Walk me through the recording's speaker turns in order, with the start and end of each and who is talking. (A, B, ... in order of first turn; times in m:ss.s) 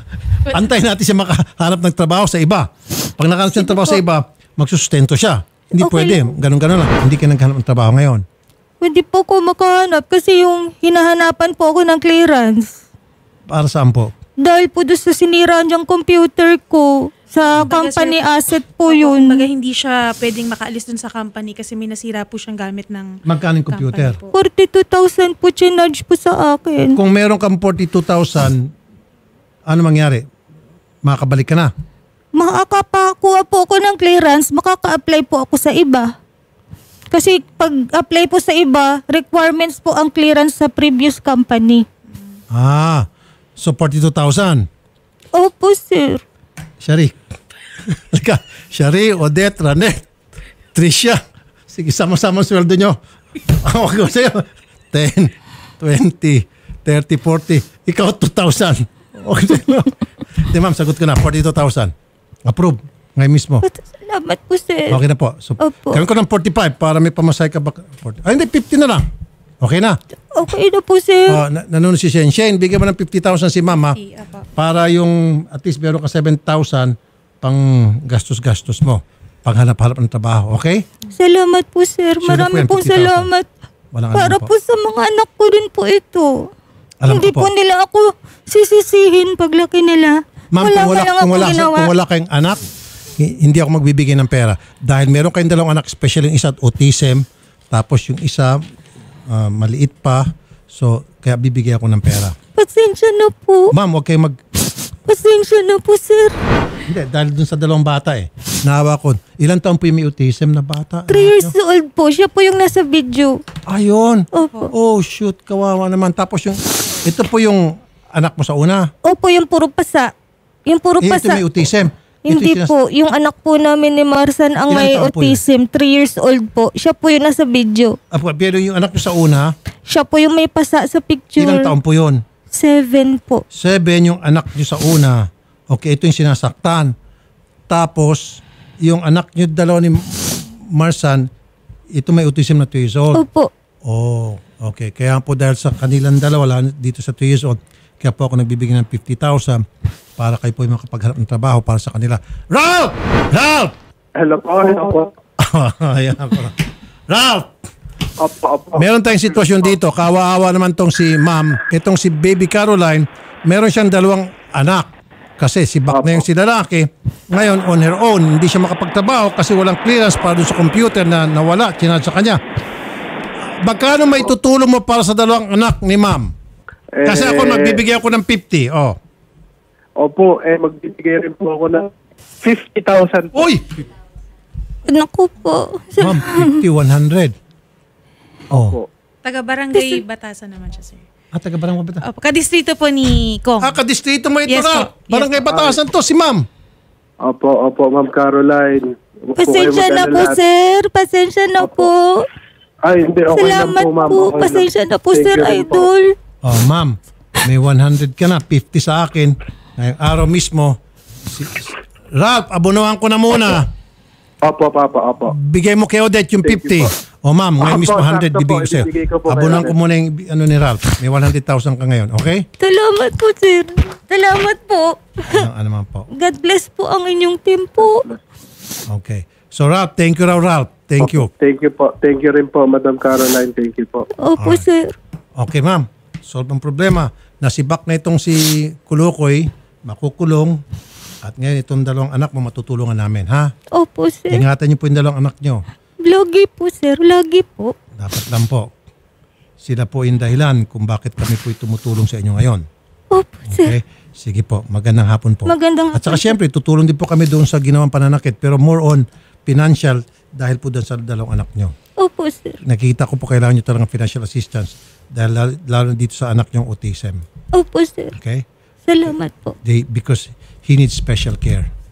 0:00.5-0:08.2 A
0:03.5-0:04.0 B
0:05.8-0:06.3 B
0:08.8-0:12.8 B
0:13.5-0:14.1 A
0:14.4-0:19.4 B
0:17.5-0:18.2 C
0:18.8-0:24.3 C
0:23.3-0:24.2 A
0:24.3-0:27.0 B
0:27.0-0:28.7 A
0:29.7-0:30.2 A
0:31.0-0:31.7 A
0:32.4-0:36.1 B
0:37.1-0:41.9 B
0:42.5-0:43.1 A
0:43.6-0:44.7 A
0:45.3-0:46.2 B
0:46.8-0:47.2 A
0:47.9-0:50.0 A
0:50.7-0:53.0 A
0:53.6-0:59.9 A
1:00.4-1:01.9 A
1:02.5-1:03.6 A
1:03.6-1:05.0 B
1:04.9-1:09.1 A
1:05.6-1:06.0 B
1:09.6-1:10.0 A
1:10.3-1:11.4 B
1:11.3-1:14.0 A
1:13.8-1:14.5 C
1:14.6-1:20.8 A
1:21.2-1:23.5 B
1:22.2-1:23.3 A
1:23.9-1:24.5 A
1:24.1-1:26.5 B
1:27.0-1:27.5 A
1:27.1-1:31.9 B
1:30.5-1:32.6 A
1:33.2-1:38.6 A
1:39.3-1:42.4 A
1:42.6-1:43.7 B
1:43.7-1:44.4 A
1:45.1-1:46.4 B
1:46.9-1:51.5 A
1:51.1-1:53.4 B
1:53.7-1:58.9 A
1:54.3-1:54.7 B
1:59.0-2:00.1 B
2:00.7-2:01.5 B
2:01.0-2:02.7 A
2:02.3-2:08.0 B
2:04.7-2:05.4 A
2:08.1-2:09.5 A
2:09.9-2:11.7 B
2:11.4-2:12.2 A
2:12.5-2:13.4 B
2:13.5-2:16.9 A
2:17.7-2:21.3 A
2:21.9-2:23.2 A
2:23.2-2:23.5 B
2:23.9-2:29.6 A
2:30.2-2:33.7 A
2:34.2-2:35.1 D
2:35.4-2:36.6 A
2:37.1-2:37.5 A
2:38.2-2:39.8 D
2:38.8-2:52.4 A
2:45.9-2:46.2 D
2:53.6-2:56.3 A
2:57.0-2:57.8 D
2:57.0-2:59.0 A
3:00.0-3:01.9 D
3:02.4-3:03.3 D
3:03.3-3:03.8 A
3:04.9-3:06.6 B
3:06.0-3:07.3 A
3:08.5-3:08.8 A
3:08.5-3:08.9 D
3:09.2-3:11.0 C
3:09.8-3:10.0 B
3:11.3-3:12.0 A
3:12.0-3:13.8 C
3:13.6-3:16.5 A
3:14.5-3:15.5 C
3:17.3-3:20.4 D
3:19.4-3:22.3 B
3:21.6-3:21.9 D
3:22.9-3:25.9 D
3:23.3-3:26.1 B
3:26.4-3:33.7 A
3:34.4-3:35.4 D
3:35.3-3:42.5 A
3:36.4-3:36.9 D
3:37.6-3:39.7 D
3:42.6-3:45.4 B
3:45.3-3:46.1 A
3:46.1-3:48.1 B
3:47.8-3:48.2 D
3:48.9-3:51.3 A
3:51.0-3:54.1 D
3:54.2-3:54.9 B
3:54.4-3:54.6 A
3:55.4-4:00.6 A
4:01.2-4:03.5 A
4:03.7-4:04.4 B
4:04.3-4:05.6 A
4:06.0-4:07.7 B
4:08.0-4:08.7 A
4:09.6-4:12.6 A
4:13.1-4:13.8 B
4:13.5-4:21.8 A
4:15.5-4:16.3 B
4:22.0-4:22.6 B
4:22.6-4:27.2 A
4:27.5-4:28.1 B
4:28.2-4:28.4 A
4:28.9-4:29.6 B
4:29.6-4:31.7 A